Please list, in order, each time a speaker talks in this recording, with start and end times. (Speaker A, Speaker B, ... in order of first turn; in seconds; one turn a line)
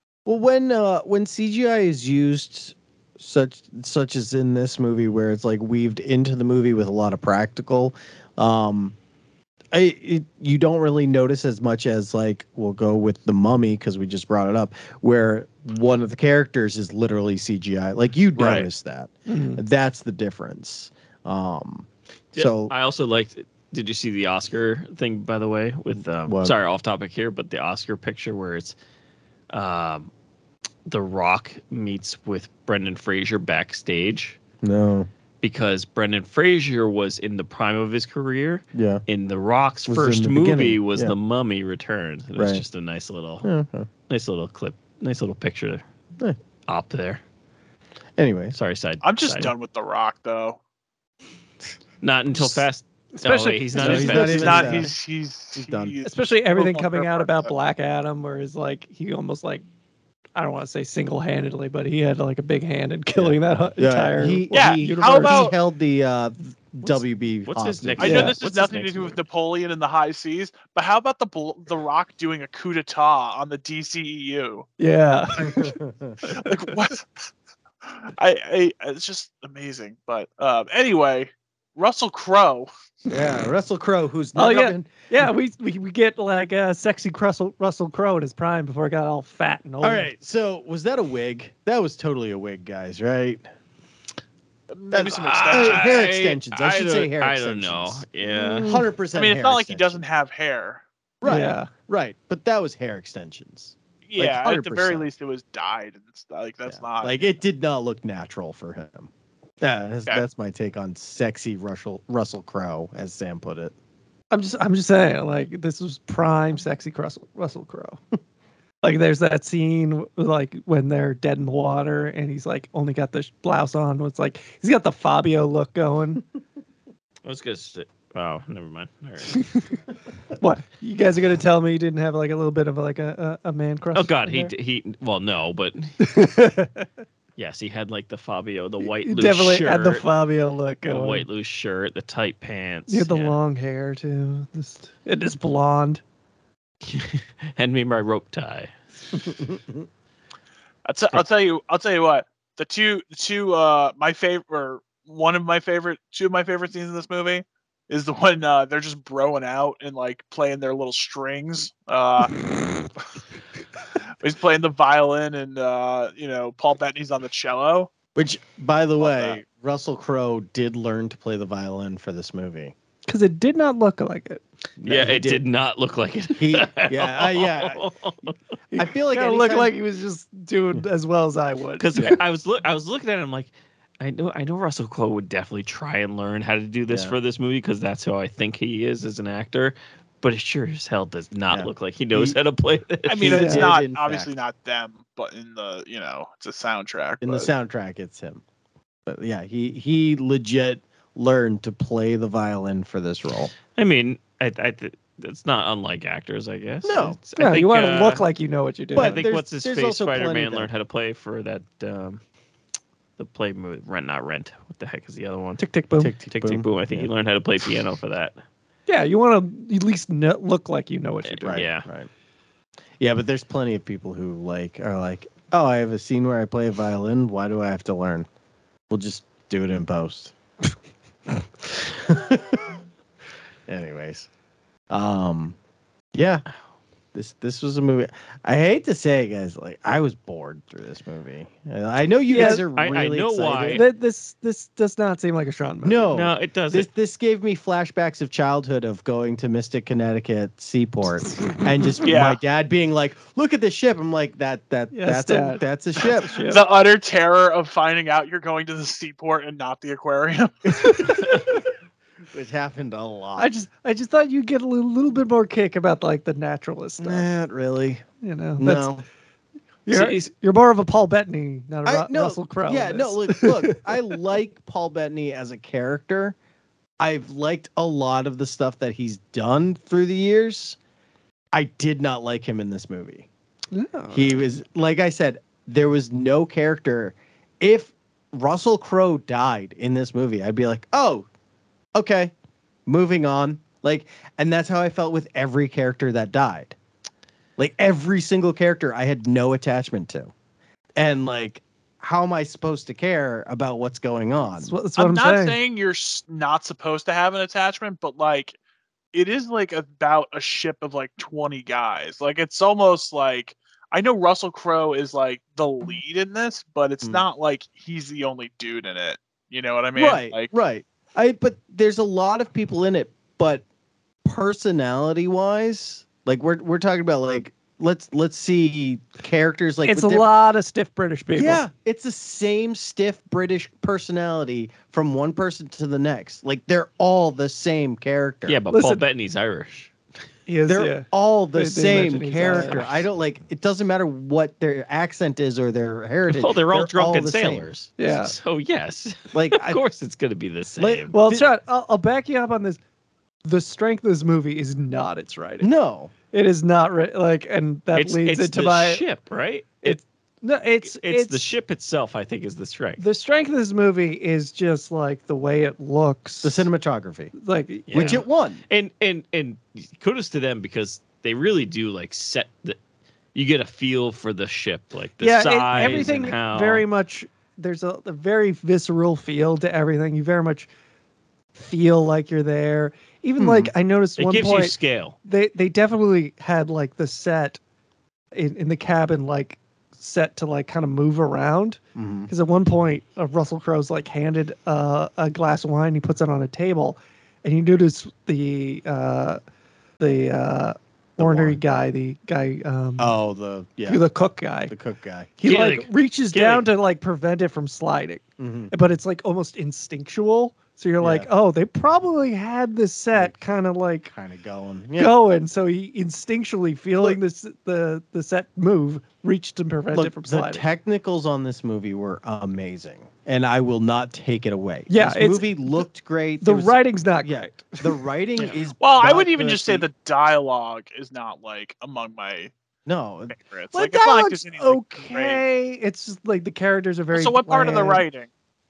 Speaker A: 0.2-8.9
Speaker A: 9.7-22.7
Speaker B: 18.4-18.7
Speaker C: 19.3-19.6
Speaker D: 22.3-28.8
Speaker A: 26.3-26.5
Speaker D: 29.5-30.1
Speaker D: 30.9-34.4
Speaker A: 34.6-35.1
Speaker D: 35.4-43.5
Speaker A: 38.7-39.0
Speaker A: 39.9-41.1
Speaker A: 42.4-42.6
Speaker A: 43.4-43.9
Speaker D: 44.1-45.8
Speaker D: 46.7-47.2
Speaker A: 48.2-48.6
Speaker D: 48.5-49.5
Speaker B: 49.0-50.6
Speaker D: 52.0-54.9
Speaker C: 53.1-54.7
Speaker A: 53.8-54.9
Speaker B: 54.0-57.5
Speaker A: 55.6-55.9
Speaker C: 56.0-59.6
Speaker C: 60.4-65.5
Speaker A: 63.1-68.2
Speaker B: 64.5-65.5
Speaker D: 66.8-69.2
Speaker B: 68.0-74.7
Speaker C: 68.0-68.3
Speaker C: 74.8-75.8
Speaker A: 75.4-76.2
Speaker B: 76.3-77.1
Speaker B: 78.0-82.7
Speaker A: 83.1-85.3
Speaker C: 84.4-90.1
Speaker A: 89.8-93.4
Speaker B: 94.7-96.1
Speaker A: 94.9-100.0
Speaker D: 95.1-98.7
Speaker C: 98.4-98.8
Speaker B: 99.1-100.8
Speaker A: 101.2-105.1
Speaker C: 101.2-101.7
Speaker B: 104.1-107.2
Speaker A: 106.7-109.1
Speaker A: 109.6-113.7
Speaker C: 114.3-118.0
Speaker C: 118.8-126.2
Speaker D: 127.2-129.4
Speaker C: 129.3-129.7
Speaker C: 130.4-134.5
Speaker D: 133.9-136.0
Speaker C: 136.0-136.9
Speaker D: 137.4-140.1
Speaker C: 138.8-141.2
Speaker D: 140.9-143.4
Speaker C: 142.9-146.0
Speaker D: 146.8-148.7
Speaker A: 149.5-149.8
Speaker B: 150.8-162.4
Speaker B: 164.2-167.9
Speaker A: 168.1-172.7
Speaker B: 169.0-169.4
Speaker C: 173.1-174.4
Speaker A: 174.8-175.4
Speaker D: 174.8-178.4
Speaker A: 176.4-177.8
Speaker C: 178.7-182.1
Speaker A: 178.8-179.7
Speaker D: 181.8-193.3
Speaker A: 186.9-187.1
Speaker A: 191.5-192.4
Speaker B: 193.1-197.5
Speaker A: 193.1-194.3
Speaker C: 193.3-193.7
Speaker A: 197.2-198.4
Speaker A: 199.1-203.5
Speaker D: 203.7-208.2
Speaker A: 206.8-207.2
Speaker C: 207.4-209.3
Speaker A: 208.9-210.7
Speaker D: 208.9-212.2
Speaker D: 213.2-215.6
Speaker C: 215.6-216.1
Speaker A: 216.0-217.1
Speaker D: 216.2-218.3
Speaker C: 218.9-221.6
Speaker D: 221.3-221.8
Speaker A: 221.4-222.1
Speaker A: 223.0-228.3
Speaker A: 228.9-230.3
Speaker A: 231.3-232.8
Speaker A: 233.7-234.3
Speaker A: 234.9-235.6
Speaker A: 236.1-236.4
Speaker A: 237.1-243.8
Speaker C: 242.3-242.7
Speaker D: 242.3-243.8
Speaker C: 243.7-246.1
Speaker A: 245.8-256.4
Speaker D: 246.1-246.9
Speaker B: 252.0-252.4
Speaker C: 254.9-256.6
Speaker B: 256.4-261.2
Speaker A: 260.8-261.6
Speaker A: 262.3-263.5
Speaker C: 263.4-267.3
Speaker A: 267.0-268.0
Speaker C: 268.2-268.9
Speaker A: 268.6-269.0
Speaker C: 269.9-274.1
Speaker D: 269.9-270.3
Speaker A: 271.9-276.4
Speaker A: 277.0-280.8
Speaker A: 281.5-283.3
Speaker C: 283.7-284.4
Speaker A: 284.1-291.3
Speaker A: 291.9-292.3
Speaker A: 292.9-296.8
Speaker A: 297.6-300.3
Speaker A: 301.0-304.8
Speaker C: 304.5-305.6
Speaker B: 305.0-308.6
Speaker B: 309.1-320.5
Speaker A: 319.9-323.6
Speaker A: 324.2-330.3
Speaker C: 329.9-331.6
Speaker A: 331.4-338.6
Speaker D: 338.5-339.9
Speaker C: 338.7-339.0
Speaker C: 340.5-343.0
Speaker A: 340.7-347.7
Speaker D: 346.3-351.1
Speaker C: 348.0-348.3
Speaker A: 349.3-349.8
Speaker A: 350.8-351.5
Speaker C: 351.1-352.8
Speaker C: 353.4-355.7
Speaker A: 355.6-356.1
Speaker C: 356.3-359.0
Speaker D: 357.9-360.0
Speaker C: 359.8-361.4
Speaker D: 360.8-363.0
Speaker C: 363.0-366.7
Speaker A: 366.4-367.3
Speaker C: 367.4-368.2
Speaker D: 367.9-372.8
Speaker A: 367.9-368.6
Speaker D: 373.3-376.8
Speaker C: 375.2-380.7
Speaker C: 381.6-387.6
Speaker A: 383.4-383.7
Speaker D: 384.2-385.1
Speaker C: 388.4-399.4
Speaker A: 392.0-392.3
Speaker C: 400.0-403.1
Speaker A: 401.2-401.6
Speaker A: 403.0-404.0
Speaker C: 403.9-404.7
Speaker A: 404.7-405.3
Speaker C: 405.4-414.1
Speaker D: 405.4-406.7
Speaker A: 408.4-408.7
Speaker A: 411.0-411.3
Speaker A: 414.1-415.1
Speaker C: 415.0-420.6
Speaker A: 419.9-429.9
Speaker C: 424.9-425.8
Speaker C: 426.4-427.9
Speaker B: 428.8-432.5
Speaker A: 432.9-433.4
Speaker B: 433.3-435.4
Speaker C: 433.7-438.0
Speaker B: 437.1-438.3